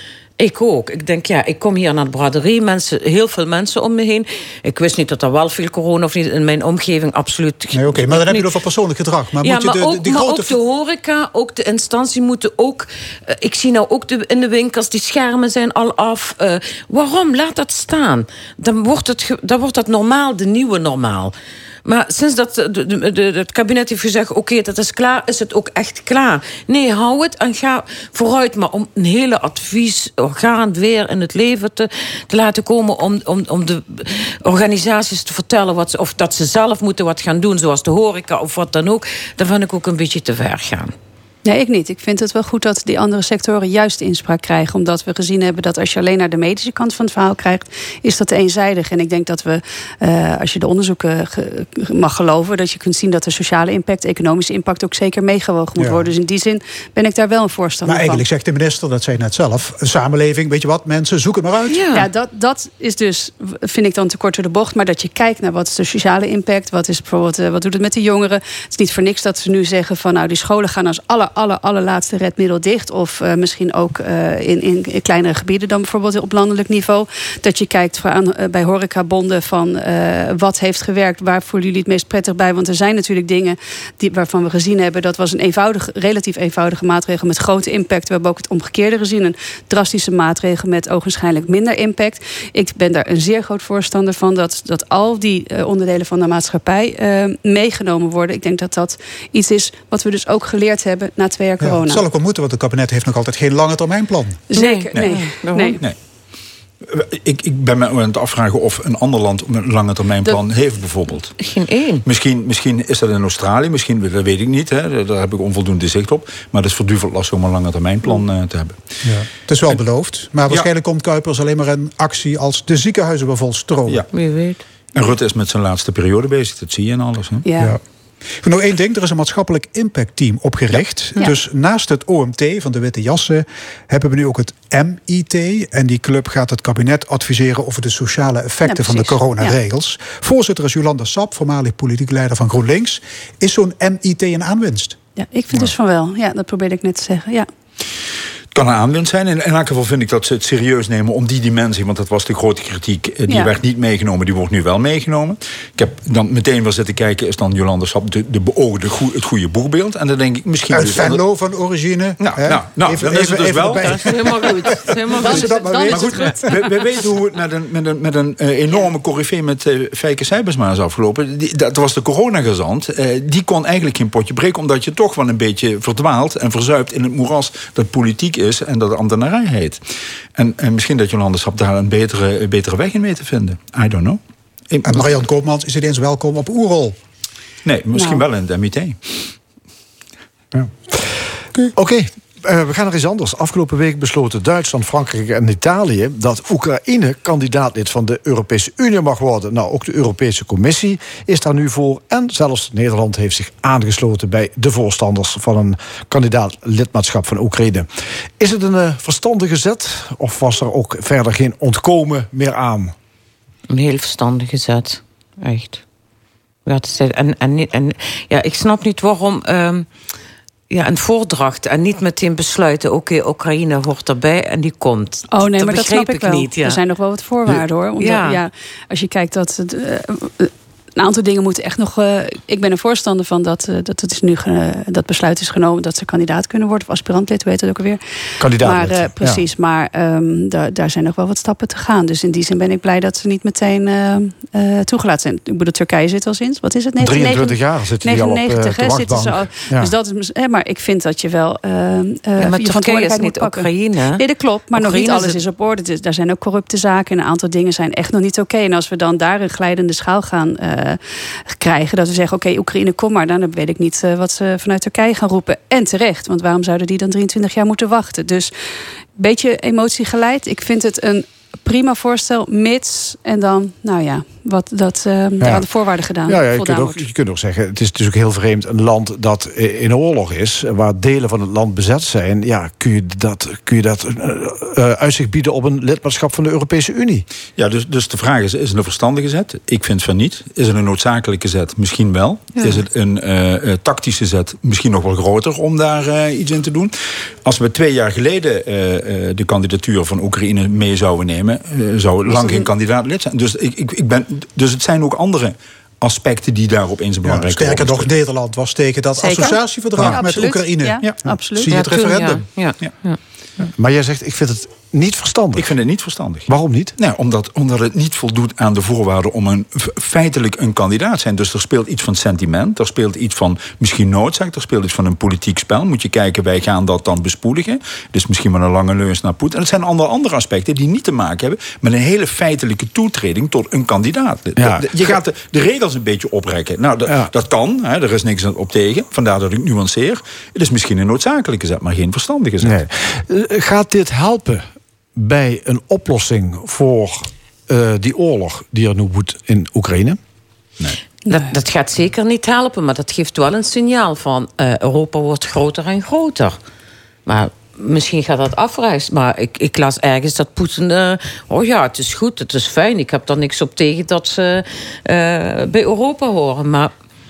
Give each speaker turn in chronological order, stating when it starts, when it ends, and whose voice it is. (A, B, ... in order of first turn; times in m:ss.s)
0:00.4-0:08.5 A
0:07.7-0:10.6 B
0:09.4-0:21.3 A
0:21.8-0:40.9 A
0:41.4-0:58.2 C
0:55.8-0:56.0 B
0:57.8-1:01.9 B
1:01.7-1:02.1 A
1:01.9-1:42.1 C
1:41.6-1:44.4 B
1:44.5-1:45.8 C
1:44.6-1:45.8 A
1:46.8-1:51.3 D
1:51.4-1:52.0 A
1:52.0-1:58.8 D
1:59.0-2:04.0 B
2:04.1-2:04.6 A
2:04.9-2:07.4 D
2:07.4-2:07.8 C
2:08.4-2:25.0 B
2:18.6-2:19.6 C
2:25.2-2:27.5 C
2:28.5-2:41.2 D
2:33.3-2:33.5 C
2:40.7-2:46.7 B
2:42.2-2:44.7 D
2:43.9-2:46.6 A
2:45.2-2:46.4 C
2:45.9-2:59.8 D
3:00.3-3:05.0 D
3:04.8-3:07.0 B
3:07.6-3:09.3 D
3:07.9-3:08.2 C
3:10.5-3:10.9 E
3:11.7-3:27.9 E
3:28.4-3:32.9 E
3:33.7-3:35.8 A
3:36.6-3:39.9 A
3:40.7-3:46.8 A
3:45.3-4:21.0 C
3:48.0-3:48.4 A
3:58.4-3:59.4 E
4:07.0-4:09.9 E
4:12.4-4:15.4 A
4:21.5-4:28.5 C
4:29.2-4:37.0 C
4:36.3-4:47.2 E
4:47.6-4:56.9 D
4:52.5-4:52.8 A
4:57.4-5:08.1 D
5:02.3-5:02.7 C
5:07.2-5:12.4 B
5:09.2-5:11.8 C
5:11.6-5:13.2 A
5:13.7-5:15.7 E
5:15.6-5:42.8 D
5:16.4-5:16.9 E
5:34.6-5:35.2 E
5:37.1-5:37.3 E
5:42.6-5:50.2 E
5:51.3-5:56.6 A
5:57.2-6:06.9 A